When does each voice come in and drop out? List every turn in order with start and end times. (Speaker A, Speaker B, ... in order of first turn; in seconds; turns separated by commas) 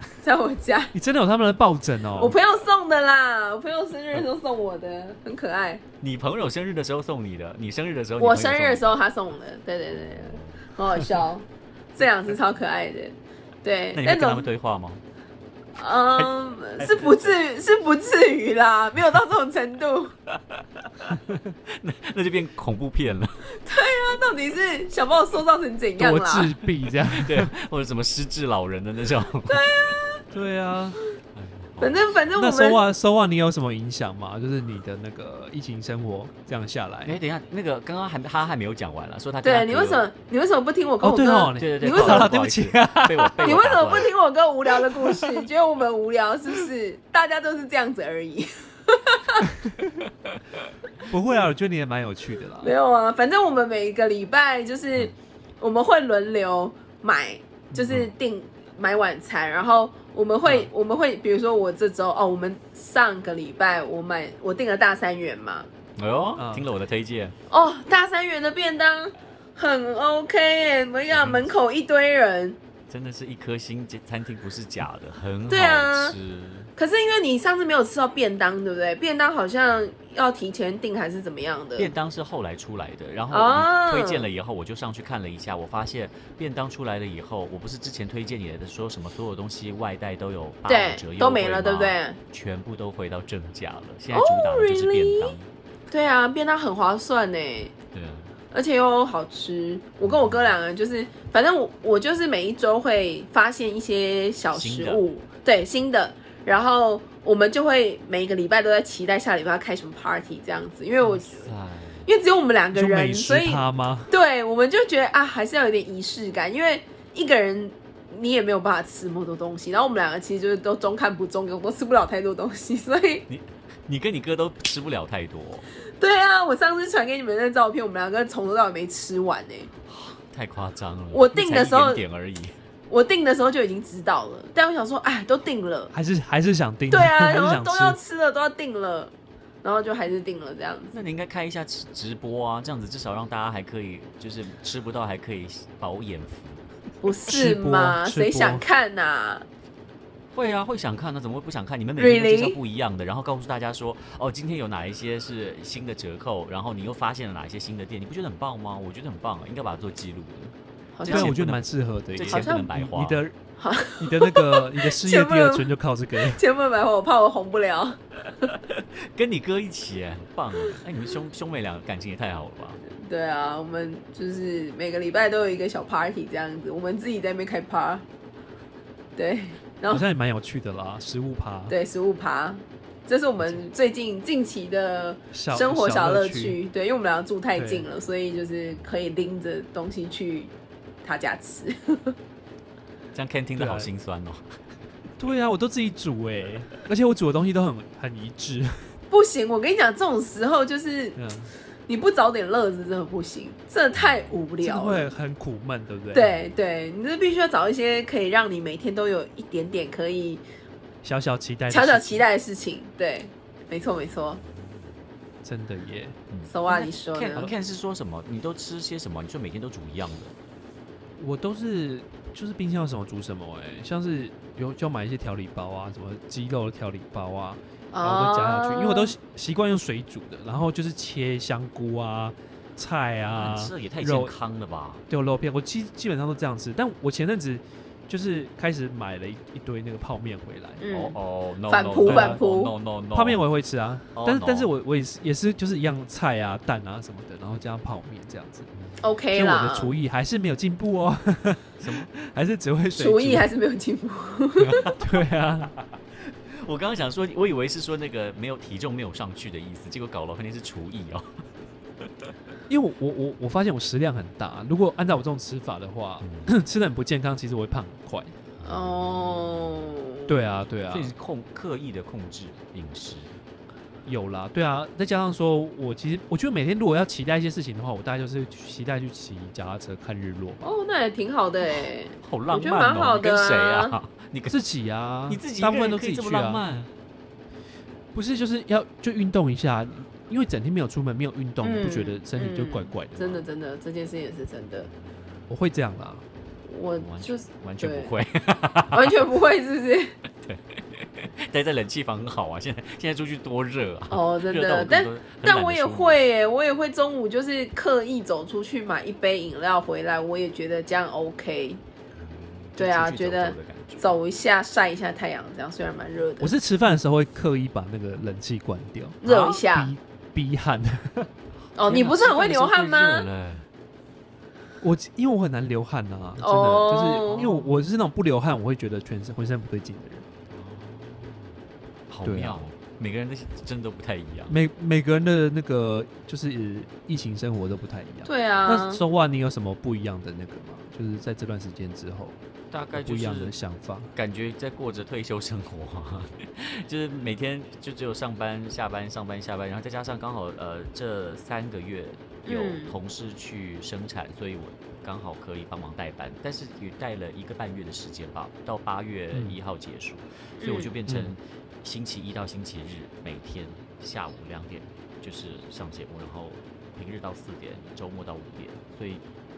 Speaker A: 0.2-0.9, Speaker B: 0.9-2.4, Speaker A: 2.2-5.8, Speaker C: 6.0-8.9, Speaker A: 8.2-14.5, Speaker C: 9.9-10.6, Speaker C: 13.9-15.0, Speaker A: 15.8-20.1, Speaker C: 16.2-17.3, Speaker C: 20.3-23.4, Speaker A: 23.5-26.5, Speaker B: 26.0-27.5, Speaker C: 26.9-29.8, Speaker A: 29.5-30.2, Speaker B: 30.3-31.0, Speaker C: 31.3-32.2, Speaker A: 31.8-32.8, Speaker B: 32.4-37.2, Speaker C: 37.0-40.0, Speaker A: 39.4-42.3, Speaker B: 41.0-43.5, Speaker C: 41.6-44.1, Speaker A: 43.4-49.5, Speaker B: 45.0-45.4, Speaker B: 51.1-52.7, Speaker A: 52.6-65.7, Speaker B: 57.7-58.0, Speaker C: 66.0-67.4, Speaker B: 66.4-66.7, Speaker A: 67.5-72.6, Speaker C: 71.1-71.5, Speaker C: 72.9-76.7, Speaker A: 75.5-76.2, Speaker A: 76.8-81.9, Speaker C: 81.8-95.5, Speaker A: 83.3-84.2, Speaker A: 90.7-92.2, Speaker A: 94.1-95.3, Speaker A: 95.9-97.7, Speaker C: 97.9-98.3, Speaker A: 98.5-111.5, Speaker C: 100.0-100.5, Speaker C: 104.5-105.0, Speaker C: 111.0-112.1, Speaker A: 112.0-123.2, Speaker B: 112.8-114.1, Speaker C: 123.3-125.7, Speaker A: 126.0-129.7, Speaker C: 129.9-132.5, Speaker A: 131.1-132.0, Speaker A: 132.9-135.9, Speaker B: 135.9-138.0, Speaker A: 136.9-139.1, Speaker A: 139.6-141.0, Speaker C: 140.9-146.7, Speaker A: 147.0-149.5, Speaker B: 147.3-148.7, Speaker C: 150.3-163.2, Speaker A: 152.0-152.6, Speaker A: 161.0-161.4, Speaker B: 161.1-163.4, Speaker A: 162.3-162.7, Speaker A: 163.6-168.0, Speaker B: 164.0-166.4, Speaker C: 168.7-172.8, Speaker A: 172.9-178.0, Speaker A: 179.2-180.1, Speaker B: 179.9-181.8, Speaker A: 181.7-190.5, Speaker B: 185.3-186.6, Speaker B: 187.6-187.9, Speaker A: 191.0-192.2, Speaker C: 193.1-194.4, Speaker B: 193.6-193.9, Speaker B: 195.2-198.9, Speaker A: 199.1-201.2, Speaker B: 201.2-201.5, Speaker A: 201.9-205.1, Speaker C: 204.0-204.3, Speaker B: 204.6-206.3, Speaker A: 206.1-210.4, Speaker B: 211.0-212.2, Speaker A: 211.7-214.4, Speaker B: 215.4-216.2, Speaker C: 216.3-220.3, Speaker A: 216.5-217.5, Speaker B: 221.2-234.3, Speaker A: 227.9-229.2, Speaker C: 233.3-235.0, Speaker B: 235.1-240.8, Speaker A: 240.8-241.2, Speaker C: 240.9-243.4, Speaker A: 241.7-242.7, Speaker B: 242.0-242.4, Speaker B: 243.1-248.7, Speaker C: 244.2-244.7, Speaker A: 249.0-249.9, Speaker B: 249.3-253.5, Speaker C: 251.8-252.1, Speaker A: 253.0-254.9, Speaker C: 254.7-255.0, Speaker B: 255.0-255.7, Speaker C: 255.7-261.4, Speaker C: 262.0-262.3, Speaker B: 262.7-268.3, Speaker C: 266.2-266.5, Speaker C: 268.6-269.7, Speaker A: 268.6-270.3, Speaker B: 270.3-271.1, Speaker C: 270.9-273.4, Speaker B: 274.1-280.7, Speaker A: 280.6-284.0, Speaker C: 282.2-284.6, Speaker B: 284.5-286.6, Speaker C: 285.3-286.9, Speaker B: 288.1-293.4, Speaker A: 291.6-294.9, Speaker B: 295.5-296.2, Speaker A: 296.7-298.1, Speaker C: 297.0-299.2, Speaker A: 298.9-300.1, Speaker C: 300.4-306.2, Speaker A: 304.1-311.8, Speaker C: 312.2-314.2, Speaker A: 312.8-316.5, Speaker B: 316.4-321.3, Speaker A: 319.2-319.9, Speaker A: 321.8-323.3, Speaker C: 321.8-323.7, Speaker B: 324.8-330.2, Speaker A: 326.4-327.5, Speaker C: 327.2-327.7, Speaker C: 330.5-331.5, Speaker C: 332.1-334.6, Speaker B: 332.2-332.6, Speaker B: 334.5-342.4, Speaker A: 338.2-339.0, Speaker C: 342.7-343.5, Speaker B: 342.9-344.1, Speaker C: 344.1-369.2, Speaker A: 352.5-352.9, Speaker A: 360.6-360.9, Speaker B: 361.1-361.3